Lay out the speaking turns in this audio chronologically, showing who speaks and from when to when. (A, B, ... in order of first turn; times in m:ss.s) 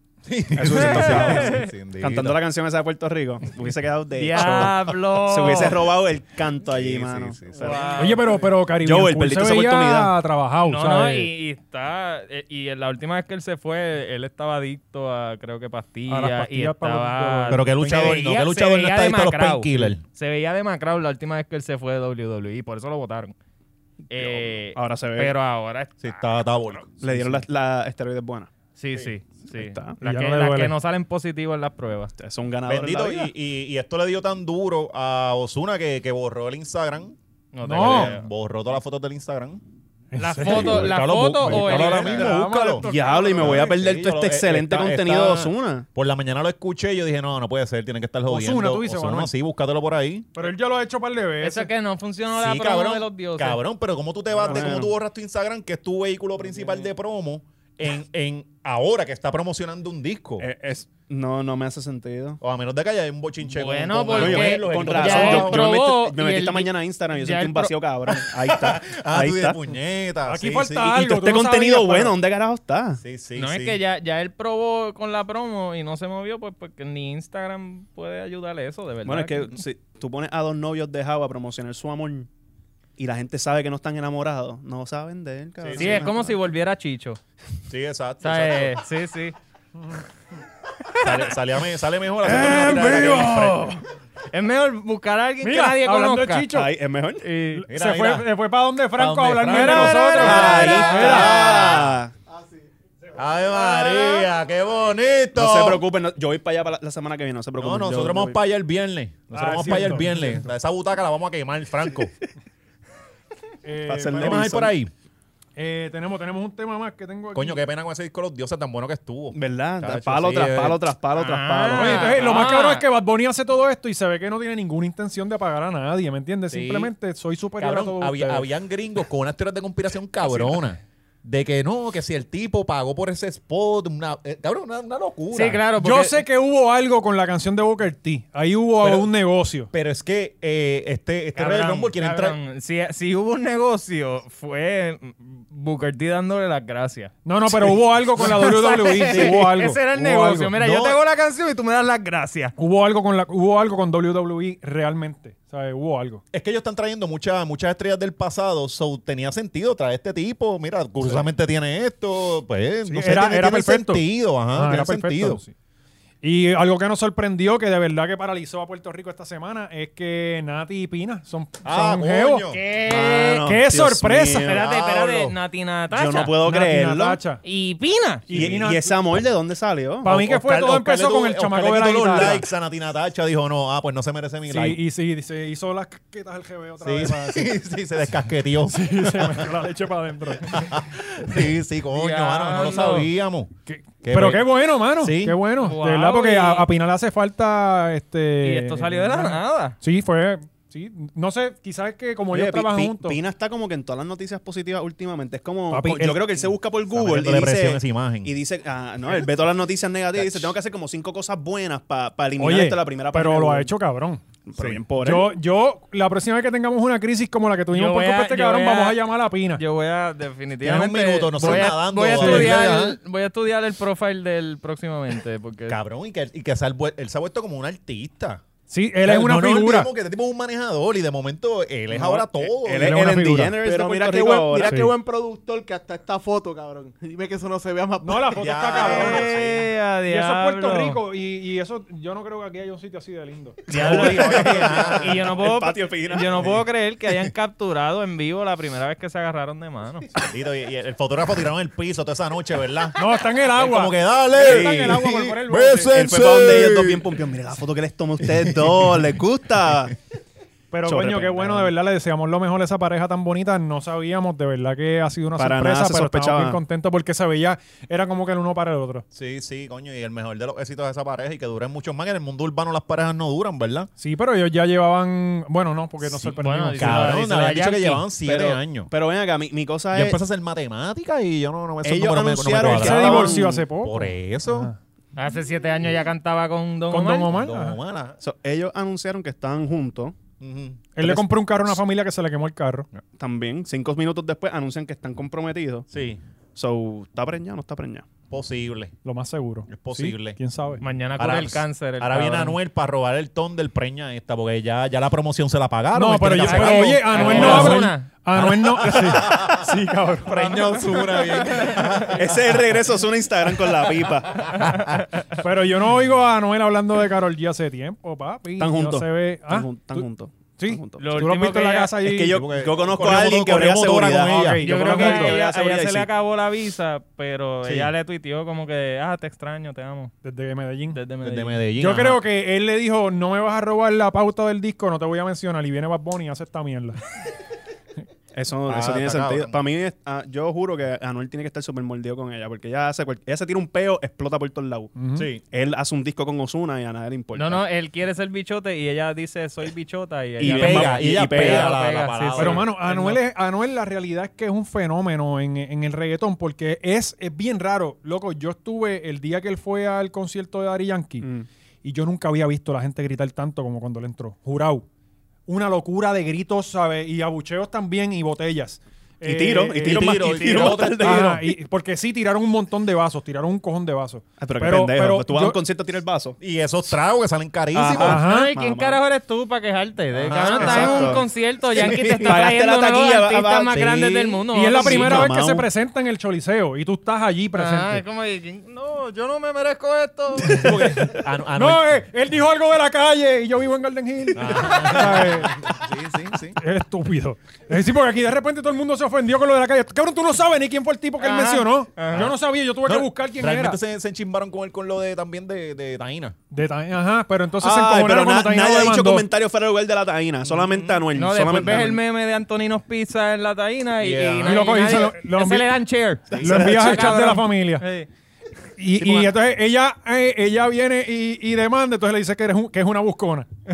0:00.2-0:02.4 A
0:00.5-0:08.2 B
0:00.6-0:01.7 C
0:04.2-0:05.9 C
0:04.4-0:04.7 A
0:06.6-0:07.9 A
0:07.6-0:08.4 C
0:08.0-0:11.3 D
0:08.8-0:10.1 B
0:10.6-0:23.3 C
0:16.1-0:18.1 D
0:17.5-0:20.0 A
0:24.1-0:25.3 B
0:24.1-0:26.8 C
0:26.0-0:27.4 A
0:27.0-0:28.5 B
0:28.8-0:32.1 C
0:29.5-0:30.0 B
0:30.0-0:30.7 D
0:32.2-0:33.3 B
0:32.6-0:37.2 A
0:37.5-0:38.3 C
0:37.6-0:38.2 D
0:37.7-0:39.6 A
0:40.1-0:43.7 D
0:40.2-0:42.4 C
0:40.4-0:42.8 A
0:42.8-0:45.8 B
0:43.4-0:50.3 A
0:48.3-0:49.3 D
0:50.3-0:51.7 D
0:51.4-0:53.6 C
0:52.3-1:00.4 A
0:54.4-0:54.9 B
1:00.4-1:02.4 B
1:02.4-1:05.8 A
1:03.5-1:07.7 C
1:04.1-1:09.6 B
1:08.2-1:10.9 A
1:10.2-1:12.1 D
1:10.9-1:13.0 B
1:13.0-1:13.8 A
1:13.4-1:19.5 C
1:19.0-1:22.3 B
1:23.0-1:26.3 B
1:25.6-1:26.1 A
1:25.7-1:27.2 C
1:27.7-1:28.8 A
1:28.2-1:29.3 C
1:30.9-1:31.3 C
1:31.0-1:33.7 A
1:32.2-1:36.5 C
1:32.6-1:33.0 D
1:35.4-1:36.7 D
1:36.5-1:37.3 B
1:37.2-1:37.6 C
1:37.5-1:41.5 D
1:37.7-1:38.3 A
1:39.0-1:42.0 A
1:39.4-1:41.8 C
1:40.2-1:42.1 B
1:42.3-1:42.6 E
1:43.2-1:45.8 A
1:45.3-1:48.4 B
1:47.6-1:52.1 A
1:49.3-1:50.4 D
1:53.6-1:54.5 D
1:53.8-1:54.7 B
1:54.1-1:54.9 A
1:55.6-1:57.6 D
1:57.3-2:00.8 A
1:59.3-2:02.2 B
2:01.1-2:02.8 C
2:01.7-2:08.4 D
2:06.5-2:06.9 A
2:07.6-2:15.6 A
2:15.3-2:16.2 C
2:15.8-2:19.7 D
2:18.8-2:19.1 A
2:19.7-2:22.4 A
2:21.3-2:32.5 C
2:27.2-2:30.5 D
2:29.0-2:31.0 A
2:32.6-2:36.2 D
2:36.3-2:45.4 A
2:42.9-2:45.5 D
2:46.2-2:52.4 D
2:51.6-2:52.6 A
2:52.5-2:53.5 C
2:52.8-2:54.6 B
2:53.4-2:54.5 D
2:54.4-2:56.3 C
2:54.5-2:55.4 A
2:55.9-2:57.2 B
2:56.4-2:57.4 D
2:57.4-2:58.3 C
2:58.3-2:59.0 D
2:58.3-3:00.1 B
2:58.3-2:58.6 A
3:00.0-3:02.4 D
3:00.0-3:04.8 A
3:04.5-3:07.5 D
3:06.8-3:09.6 A
3:08.7-3:10.7 D
3:10.4-3:13.5 A
3:11.9-3:13.1 C
3:13.7-3:23.2 D
3:14.0-3:15.4 A
3:15.6-3:16.7 C
3:18.4-3:19.8 C
3:22.3-3:33.7 B
3:25.7-3:26.3 D
3:26.9-3:28.3 A
3:30.1-3:30.5 A
3:32.4-3:34.2 D
3:34.4-3:35.4 B
3:35.0-3:39.6 D
3:37.7-3:39.0 C
3:39.5-3:45.8 C
3:40.6-3:43.0 A
3:41.4-3:42.6 D
3:45.7-3:48.4 A
3:48.7-3:49.9 D
3:49.0-3:53.0 A
3:51.9-3:54.8 B
3:52.8-3:53.6 D
3:53.6-3:58.6 E
3:54.6-3:54.9 D
3:58.0-3:59.3 D
3:58.3-3:59.7 A
3:58.7-4:01.0 C
4:00.1-4:04.5 D
4:03.7-4:06.6 B
4:03.7-4:10.1 C
4:03.7-4:05.3 A
4:10.2-4:17.0 A
4:13.0-4:15.9 D
4:14.4-4:15.0 B
4:15.9-4:20.0 B
4:18.2-4:19.0 A
4:20.7-4:29.0 D
4:20.8-4:21.7 B
4:25.4-4:26.6 B
4:29.1-4:33.9 A
4:34.0-4:37.2 D
4:36.0-4:38.9 A
4:36.4-4:38.0 C
4:38.2-4:40.2 B
4:39.9-4:44.7 A
4:41.8-4:43.6 B
4:42.6-4:44.8 D
4:45.2-4:47.3 C
4:46.9-4:47.8 D
4:47.3-4:48.2 A
4:48.2-4:50.2 B
4:50.4-4:51.2 A
4:50.9-4:52.9 D
4:53.2-4:55.9 B
4:55.9-4:56.2 A
4:56.6-4:58.0 B
4:58.3-4:58.9 A
4:59.0-5:00.8 D
4:59.7-5:00.4 A
5:00.8-5:02.6 C
5:01.2-5:09.7 A
5:05.9-5:11.2 D
5:06.4-5:08.1 C
5:10.2-5:12.7 A
5:10.8-5:12.1 C
5:12.1-5:14.7 B
5:14.4-5:15.0 A
5:15.4-5:20.0 D
5:18.6-5:21.2 B
5:20.6-5:22.4 D
5:21.0-5:21.9 C
5:22.0-5:26.1 B
5:22.3-5:24.6 A
5:24.4-5:25.4 D
5:24.6-5:30.1 C
5:27.6-5:27.9 A
5:30.2-5:31.0 D
5:30.9-5:31.6 C
5:31.2-5:32.2 A
5:31.8-5:37.0 D
5:38.3-5:44.9 B
5:38.6-5:39.6 A
5:45.0-5:45.3 D
5:45.2-5:45.4 A
5:45.5-5:47.6 B
5:47.3-5:53.2 C
5:50.4-5:51.7 B
5:50.4-5:52.7 A
5:52.4-6:01.3 D
6:01.2-6:01.5 B
6:01.8-6:04.9 D
6:05.5-6:15.6 D
6:09.2-6:11.5 B
6:09.8-6:11.4 A
6:14.4-6:16.4 B
6:16.4-6:18.3 A
6:17.7-6:19.0 B
6:18.0-6:18.5 D
6:18.1-6:25.3 C
6:20.2-6:25.7 B
6:20.2-6:21.2 A
6:24.5-6:28.0 D
6:27.6-6:30.8 C
6:30.5-6:31.9 A
6:30.6-6:35.7 D
6:34.3-6:36.6 A
6:36.6-6:43.8 D
6:41.2-6:42.3 C
6:42.1-6:46.3 A
6:46.5-6:49.3 D
6:47.6-6:52.0 B
6:50.4-6:51.0 A
6:51.1-6:58.1 C
6:54.0-6:54.7 A
6:54.4-6:55.6 D
6:56.3-6:56.8 A
6:56.4-6:57.8 D
6:56.5-6:57.1 B
6:58.8-7:03.5 D
6:59.0-6:59.3 A